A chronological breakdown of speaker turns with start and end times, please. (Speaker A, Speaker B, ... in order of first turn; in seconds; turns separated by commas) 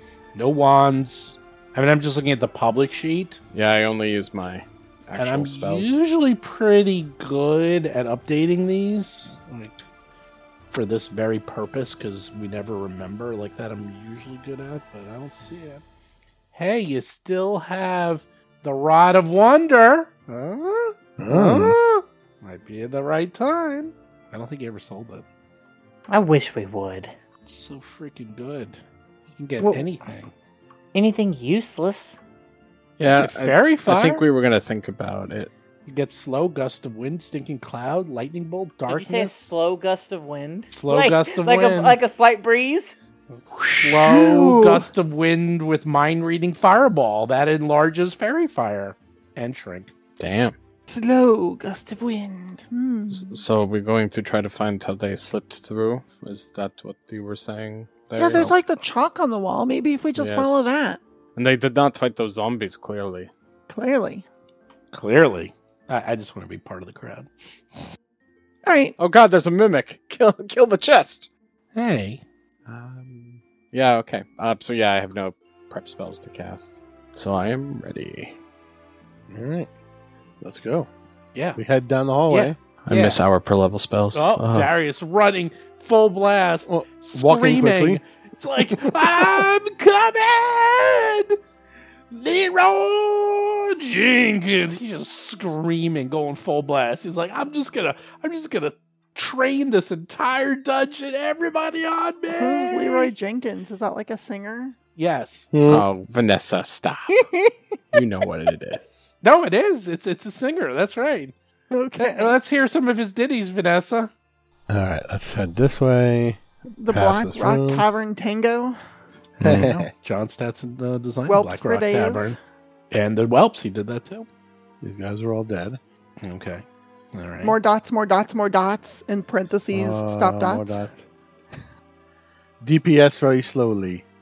Speaker A: 0.3-3.4, Speaker B: 3.5-6.0, Speaker A: 5.2-9.8, Speaker A: 10.7-15.8, Speaker A: 16.5-25.2, Speaker C: 21.2-21.8, Speaker D: 26.1-27.1, Speaker A: 27.5-28.8, Speaker A: 29.3-30.3, Speaker D: 30.9-32.2, Speaker B: 33.0-35.5, Speaker A: 33.1-34.2, Speaker A: 35.9-39.7, Speaker D: 38.9-43.0, Speaker A: 40.7-42.0, Speaker A: 43.4-49.9, Speaker E: 43.6-44.9, Speaker B: 50.2-50.5, Speaker E: 50.9-53.4, Speaker B: 53.1-58.6, Speaker E: 58.1-61.0, Speaker B: 60.2-60.7, Speaker B: 61.4-63.3, Speaker E: 63.7-64.2, Speaker A: 64.9-67.3, Speaker E: 68.7-69.0, Speaker B: 69.0-71.3, Speaker A: 71.8-72.2, Speaker B: 72.7-78.4, Speaker C: 79.3-79.7, Speaker C: 80.4-80.9, Speaker A: 81.3-81.6, Speaker C: 81.6-82.6, Speaker A: 82.3-83.2, Speaker B: 82.9-84.7, Speaker A: 84.1-91.4, Speaker C: 86.7-88.0, Speaker C: 88.6-89.5, Speaker A: 92.1-103.1, Speaker E: 102.4-104.8, Speaker A: 105.0-105.5, Speaker C: 105.5-105.9, Speaker B: 105.7-107.2, Speaker E: 107.2-107.5, Speaker B: 107.9-109.1, Speaker A: 109.2-111.3, Speaker E: 111.7-112.3, Speaker A: 112.0-114.1, Speaker C: 114.7-117.9, Speaker E: 116.8-118.8, Speaker B: 119.4-119.7, Speaker A: 119.4-122.4, Speaker C: 119.4-119.9, Speaker E: 121.3-122.4, Speaker A: 122.9-124.3, Speaker C: 124.8-125.8, Speaker A: 126.2-127.6, Speaker E: 127.4-130.8, Speaker C: 129.7-131.0, Speaker C: 132.6-134.0